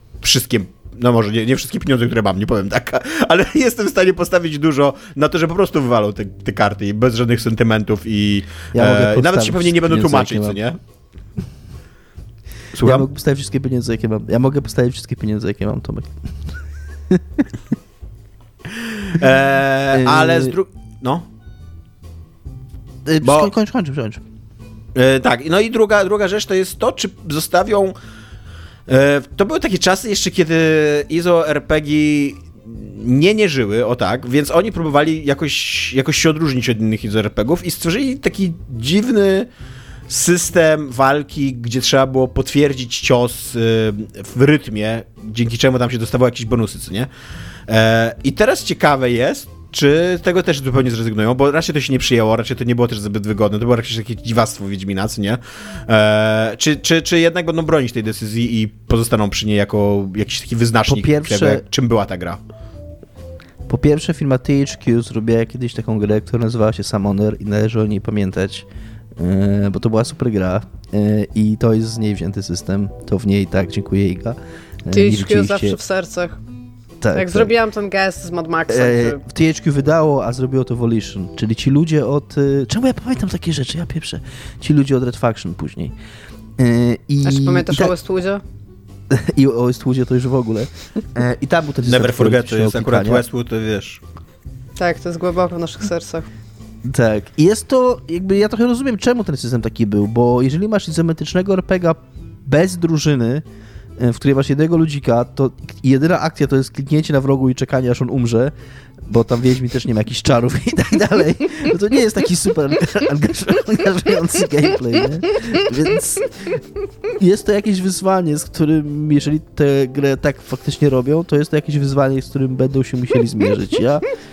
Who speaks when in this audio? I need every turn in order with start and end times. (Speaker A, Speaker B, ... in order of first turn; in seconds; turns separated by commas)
Speaker A: 0.2-10.8, Speaker B: 8.7-10.6, Speaker A: 12.7-13.1, Speaker B: 12.8-16.5, Speaker B: 17.1-17.5, Speaker A: 18.8-21.2, Speaker B: 19.9-20.5, Speaker B: 23.0-24.2, Speaker A: 23.2-23.5, Speaker A: 24.9-27.9, Speaker A: 28.9-39.5, Speaker A: 40.1-47.1, Speaker A: 47.7-62.4, Speaker B: 60.9-61.6, Speaker B: 63.7-75.8, Speaker C: 74.9-76.4, Speaker B: 77.0-77.5, Speaker C: 77.1-79.2, Speaker B: 78.7-85.9, Speaker B: 86.6-87.9, Speaker C: 87.2-88.4, Speaker B: 89.1-93.2, Speaker A: 91.8-94.0, Speaker C: 94.8-96.3, Speaker B: 96.8-103.4, Speaker B: 104.0-108.5, Speaker B: 109.0-124.0